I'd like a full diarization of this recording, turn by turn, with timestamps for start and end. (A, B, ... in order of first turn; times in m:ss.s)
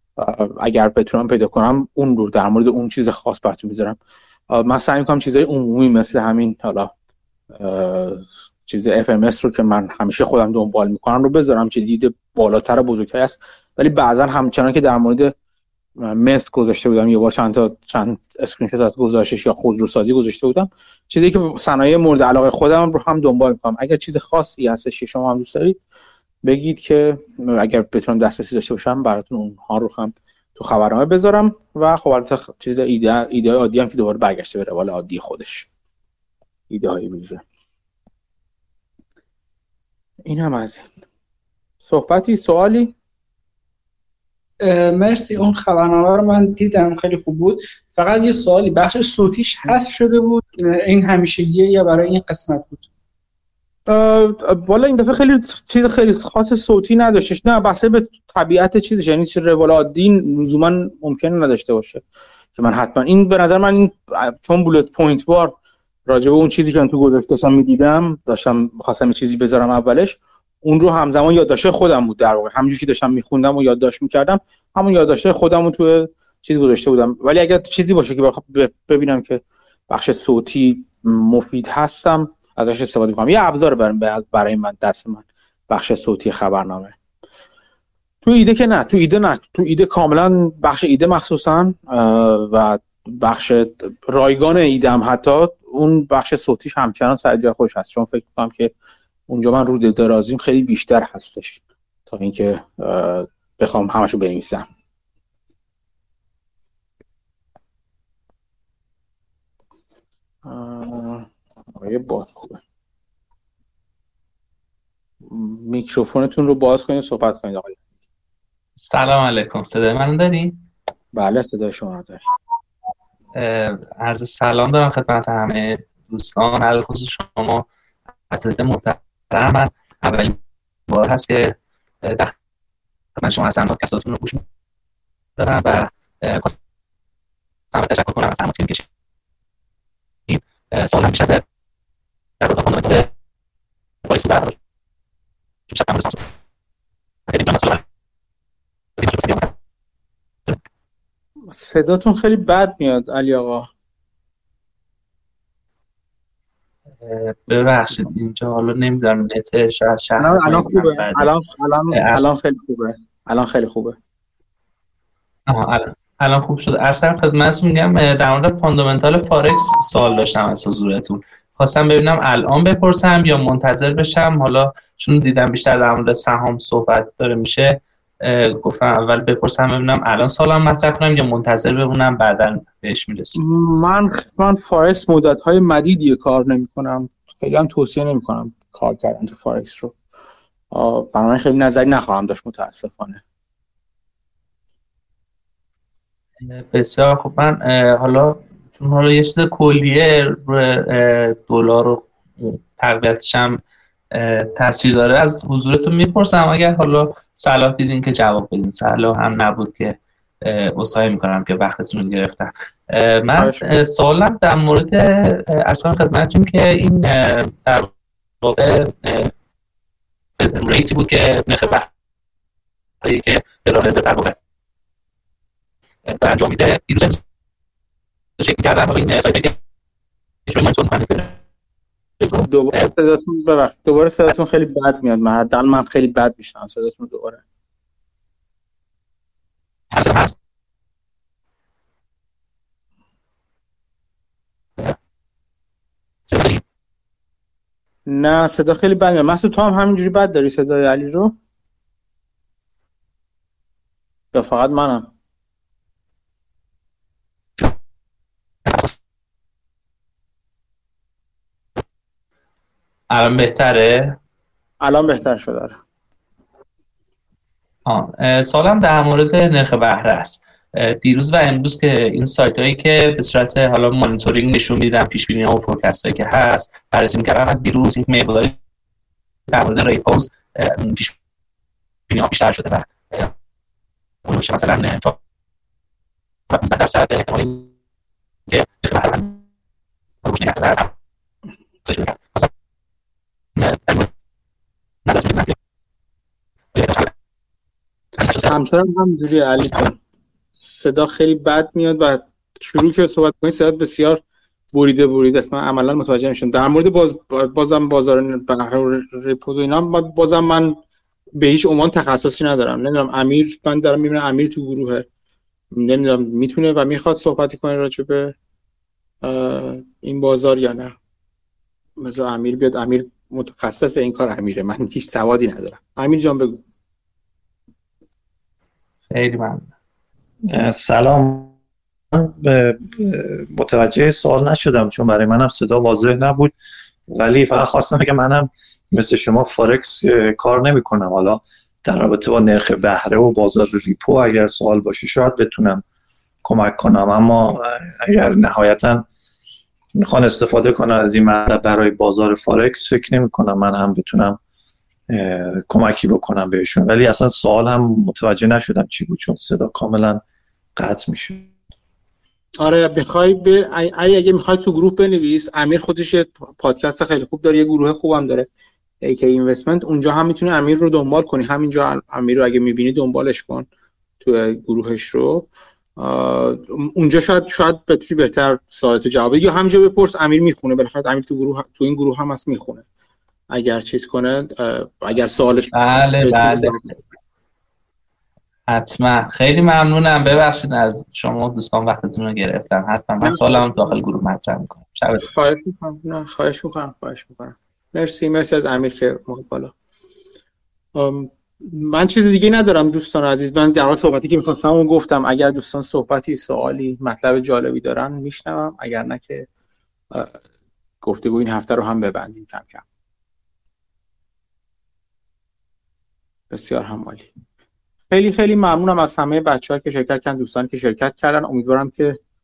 0:00.2-0:04.0 A
0:04.5-0:06.9 A
0:07.5-0:15.3 A
0:16.0-0:25.8 A
0:26.4-0:35.7 A
0:36.7-0:37.4 A
0:40.2-0:40.9 A
0:41.8-0:42.9 A
0:44.6-0:52.8 B
0:53.9-1:02.0 A
1:02.5-1:05.5 A
1:06.1-1:26.9 A
1:28.2-1:38.7 A
1:39.3-1:44.6 A
1:50.4-1:52.6 A
1:55.2-1:57.8 A
1:58.8-2:00.5 C
2:01.1-2:02.2 A
2:03.4-2:07.6 C
2:08.3-2:12.3 C
2:13.2-2:14.4 C
2:15.4-2:16.6 C
2:17.7-2:18.8 C
2:20.3-2:21.4 C
2:22.4-2:23.1 C
2:24.0-2:24.6 C
2:25.7-2:26.3 C
2:27.3-2:27.8 C
2:29.0-2:29.5 C
2:31.5-2:33.7 A
2:37.0-2:41.3 C
2:40.2-2:44.0 A
2:41.9-2:42.2 C
2:45.5-3:03.4 C
3:03.4-3:10.0 A
3:10.7-3:13.2 A
3:16.4-3:23.6 C
3:24.1-3:37.9 C
3:33.4-3:33.6 A
3:38.4-3:39.3 C
3:40.4-3:41.9 C
3:43.0-3:44.4 C
3:46.0-3:47.2 C
3:48.4-3:49.6 C
3:50.5-3:51.4 C
3:52.2-3:52.9 C
3:52.4-3:57.4 A
3:59.9-4:00.3 C
4:06.3-4:06.6 C
4:08.1-4:11.3 A
4:14.3-4:15.1 A
4:23.1-4:24.2 C
4:24.8-4:25.8 A
4:27.8-4:38.6 C
4:39.5-4:41.1 C
4:42.1-4:43.3 C
4:44.2-4:45.2 C
4:46.5-4:47.7 C
4:48.5-4:49.4 C
4:50.2-4:50.9 C
4:51.8-4:52.5 C
4:53.6-4:54.1 C
4:55.0-4:55.5 C
4:56.7-4:57.1 C
4:58.2-4:58.5 C
4:58.4-5:00.0 A
5:00.8-5:04.2 A
5:04.7-5:10.8 A
5:11.4-5:15.0 A
5:15.7-5:18.3 A
5:19.2-5:20.9 A
5:22.0-5:26.6 A
5:29.1-5:29.7 C
5:30.5-5:31.5 D
5:32.1-5:36.5 D
5:37.1-5:45.8 D
5:46.4-5:49.0 D
5:50.0-5:54.4 D
5:55.1-6:00.2 D
6:00.8-6:01.5 D
6:02.6-6:08.4 A
6:09.0-6:13.6 A
6:14.2-6:22.8 A
6:23.5-6:26.8 A
6:25.7-6:27.0 C
6:28.7-6:35.3 C
6:33.2-6:33.7 A
6:35.2-6:39.7 A
6:40.9-6:49.5 A
6:50.1-6:50.4 A
6:51.0-6:52.8 A
6:56.5-6:57.3 A
6:58.1-7:02.2 A